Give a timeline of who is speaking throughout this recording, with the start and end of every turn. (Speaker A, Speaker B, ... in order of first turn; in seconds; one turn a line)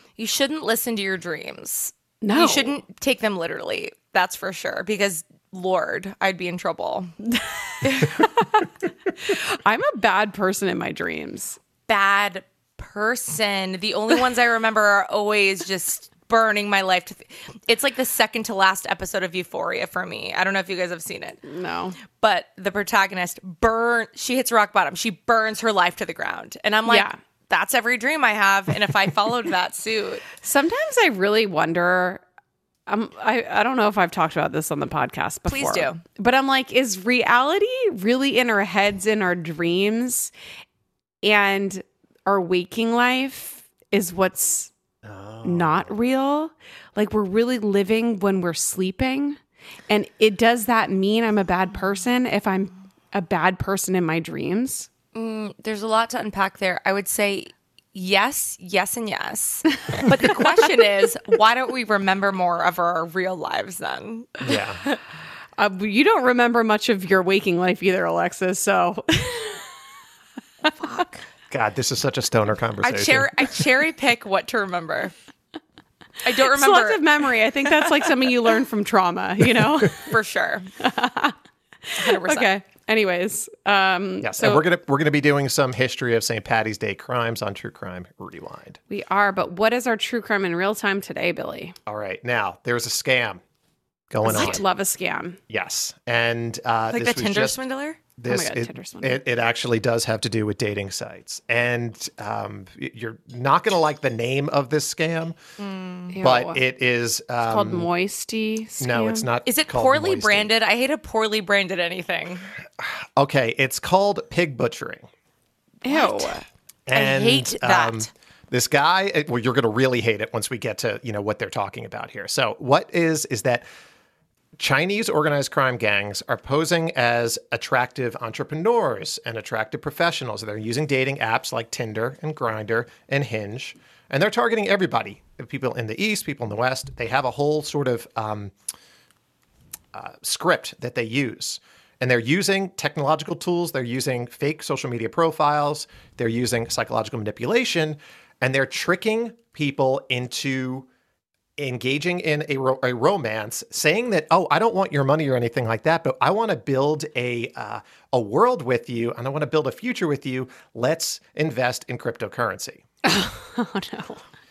Speaker A: 0.2-7.1
Speaker B: 2.2-2.8
Speaker A: 7.8-8.2
Speaker B: 7.9-8.7
Speaker B: 9.2-11.6
Speaker A: 11.9-21.4
Speaker B: 21.4-22.0
Speaker A: 22.2-30.3
Speaker B: 26.9-27.1
Speaker B: 30.4-32.2
Speaker B: 32.9-40.3
Speaker A: 35.5-36.0
Speaker B: 41.2-44.7
Speaker C: 45.0-45.9
Speaker B: 45.4-49.4
Speaker B: 49.9-54.9
Speaker A: 55.1-65.0
Speaker C: 64.4-64.8
Speaker B: 65.6-69.6
Speaker A: 70.7-71.2
Speaker C: 71.5-73.3
Speaker A: 72.8-75.1
Speaker A: 76.2-77.8
Speaker B: 76.5-80.1
Speaker A: 79.9-80.7
Speaker B: 80.8-81.3
Speaker B: 81.9-84.6
Speaker A: 82.0-82.5
Speaker C: 84.2-88.8
Speaker B: 88.9-91.7
Speaker C: 91.8-93.4
Speaker C: 94.1-94.6
Speaker B: 94.2-95.4
Speaker A: 94.3-94.6
Speaker C: 95.5-97.6
Speaker A: 96.9-98.0
Speaker C: 98.2-105.4
Speaker B: 98.3-99.2
Speaker A: 105.6-106.1
Speaker B: 106.1-106.6
Speaker C: 106.2-107.9
Speaker B: 107.5-109.3
Speaker C: 108.8-110.5
Speaker A: 109.5-112.5
Speaker C: 112.8-115.1
Speaker B: 115.8-116.4
Speaker A: 115.8-116.3
Speaker C: 116.9-123.6
Speaker A: 116.9-118.1
Speaker C: 124.6-138.5
Speaker C: 139.9-150.9
Speaker C: 151.6-162.8
Speaker B: 163.0-164.2